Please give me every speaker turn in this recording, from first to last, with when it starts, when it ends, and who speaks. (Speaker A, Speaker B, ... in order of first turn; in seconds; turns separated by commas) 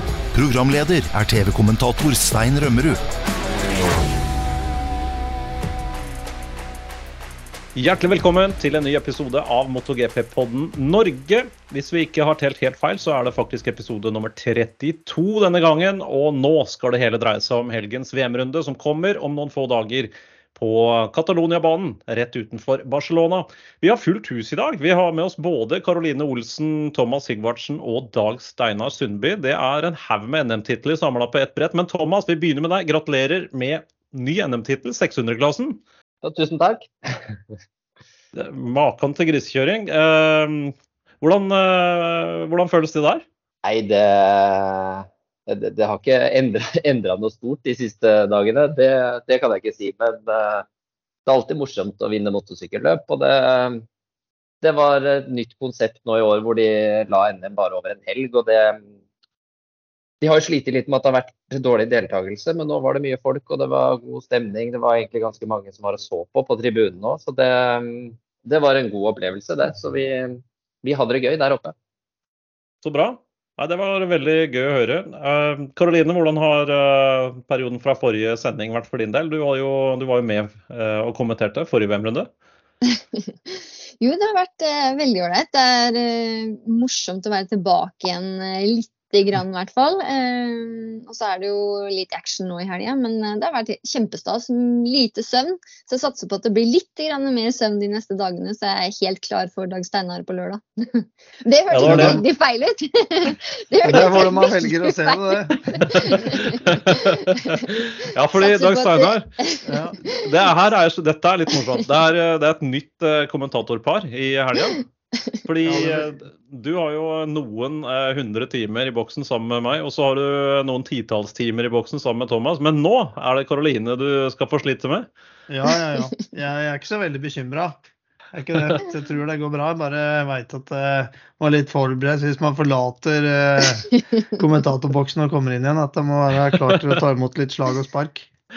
Speaker A: 0.3-3.0, Speaker B: 7.7-35.8, Speaker C: 36.2-37.4, Speaker B: 38.3-43.2, Speaker C: 43.6-50.6, Speaker C: 51.2-53.8, Speaker C: 54.6-58.9, Speaker C: 60.2-71.7, Speaker B: 72.8-82.3, Speaker D: 82.9-110.2, Speaker B: 101.7-102.2, Speaker E: 101.8-102.2, Speaker E: 103.8-106.2, Speaker B: 106.7-107.4, Speaker B: 107.9-109.3, Speaker E: 109.6-110.0, Speaker B: 110.1-114.8, Speaker B: 115.4-125.1, Speaker E: 115.6-116.0, Speaker E: 125.5-138.3